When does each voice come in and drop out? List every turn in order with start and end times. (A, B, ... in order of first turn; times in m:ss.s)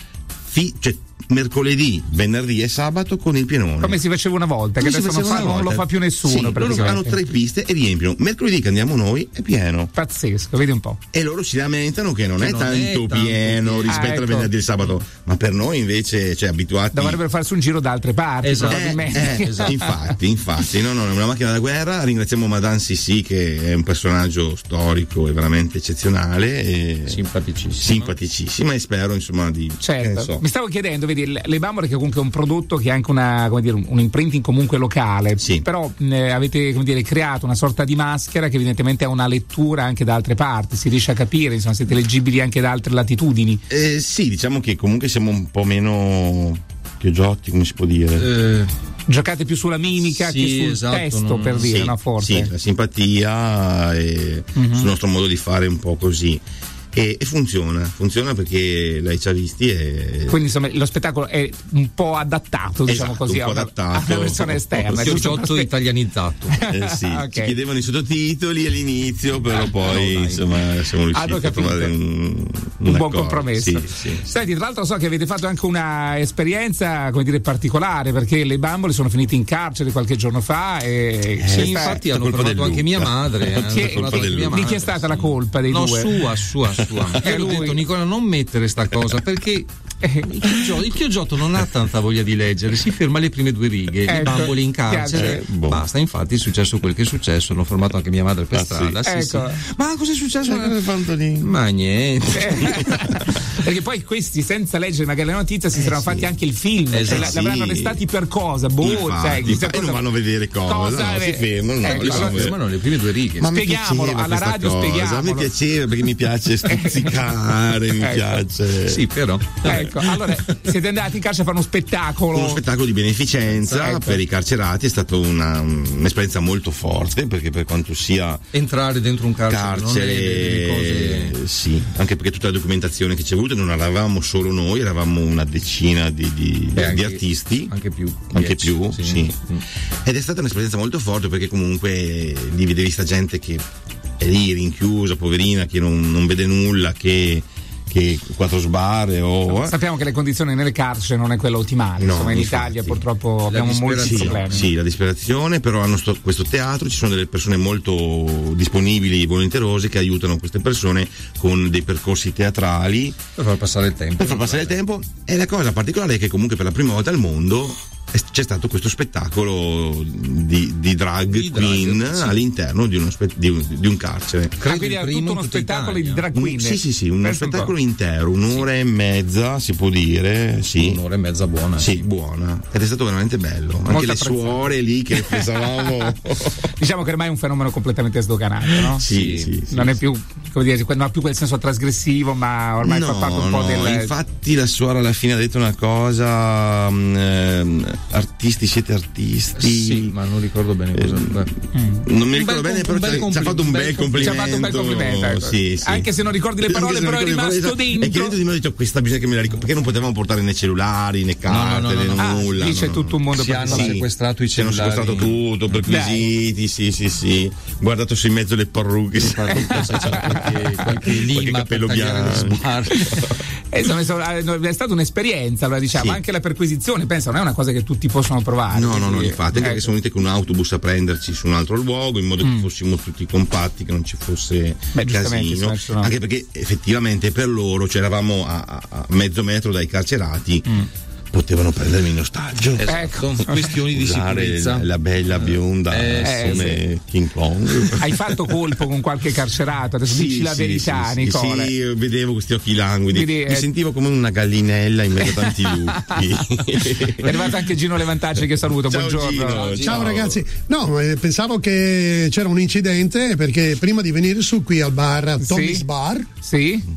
0:00.5-0:04.0 A
0:03.8-0:07.2 B
0:04.8-0:09.9 A
0:09.9-0:11.0 B
0:11.1-0:17.2 A
0:12.4-0:14.2 C
0:13.9-0:14.5 B
0:16.9-0:19.9 B
0:18.4-0:19.9 C
0:18.7-0:27.2 A
0:27.0-0:28.1 C
0:27.8-0:30.4 A
0:29.8-0:43.6 B
0:35.4-0:35.6 A
0:43.7-0:48.3 A
0:48.2-0:48.7 C
0:49.1-0:52.5 B
0:50.1-0:51.7 C
0:51.6-0:56.4 A
0:54.6-0:54.9 B
0:56.9-1:00.4 A
1:00.3-1:05.7 B
1:02.9-1:05.4 A
1:04.9-1:06.5 C
1:06.5-1:07.5 B
1:06.6-1:14.2 A
1:09.5-1:10.6 C
1:11.1-1:11.9 B
1:12.8-1:22.0 B
1:21.4-1:25.0 A
1:21.5-1:29.7 C
1:23.6-1:26.1 B
1:26.8-1:27.6 A
1:27.2-1:27.8 B
1:30.0-1:30.6 B
1:30.3-1:40.8 C
1:34.1-1:35.4 B
1:35.1-1:35.8 A
1:38.5-1:39.0 A
1:39.0-1:39.6 B
1:40.4-1:41.5 A
1:41.4-1:42.7 C
1:42.3-1:50.1 B
1:42.7-1:43.4 A
1:45.7-1:46.3 A
1:46.9-1:47.4 C
1:47.1-1:48.0 A
1:48.8-1:52.6 A
1:50.6-1:52.5 B
1:51.8-1:53.5 C
1:53.4-1:59.0 A
1:53.5-1:55.5 B
1:56.7-1:57.1 B
1:58.0-1:58.4 B
1:58.8-2:00.6 C
1:59.6-2:00.0 A
1:59.6-2:02.6 B
2:02.3-2:08.4 A
2:03.5-2:04.2 C
2:08.5-2:11.4 C
2:09.5-2:17.7 A
2:16.7-2:19.6 C
2:18.3-2:19.4 A
2:20.0-2:23.6 A
2:24.2-2:29.8 A
2:29.5-2:34.6 B
2:32.0-2:33.0 A
2:33.5-2:34.6 C
2:34.0-2:43.2 A
2:43.4-2:44.8 C
2:44.2-2:54.6 A
2:51.3-2:52.4 C
2:54.6-2:56.3 C
2:54.6-2:57.7 B
2:56.3-3:01.0 A
3:00.8-3:02.0 C
3:01.8-3:06.7 A
3:03.9-3:09.0 B
3:08.9-3:10.0 A
3:09.0-3:09.6 C
3:09.7-3:14.1 B
3:12.8-3:20.1 A
3:19.6-3:21.5 C
3:20.9-3:26.1 A
3:21.7-3:22.0 B
3:22.3-3:24.9 C
3:24.2-3:28.4 B
3:26.6-3:43.4 A
3:31.4-3:32.8 C
3:32.2-3:34.0 B
3:33.3-3:35.4 C
3:35.9-3:36.3 B
3:39.2-3:43.2 C
3:39.7-3:40.5 B
3:43.1-3:49.9 B
3:45.9-3:46.2 A
3:48.7-4:00.7 A
3:54.9-3:56.1 B
4:01.3-4:02.9 A
4:02.8-4:04.9 C
4:02.9-4:03.6 B
4:03.5-4:08.8 A
4:05.4-4:06.8 C
4:06.2-4:06.8 B
4:08.0-4:11.7 B
4:10.0-4:17.6 A
4:13.1-4:13.7 B
4:15.2-4:16.2 B
4:17.2-4:19.8 B
4:18.6-4:20.4 A
4:19.5-4:19.9 C
4:19.8-4:26.3 D
4:25.4-4:25.8 B
4:26.4-4:26.8 B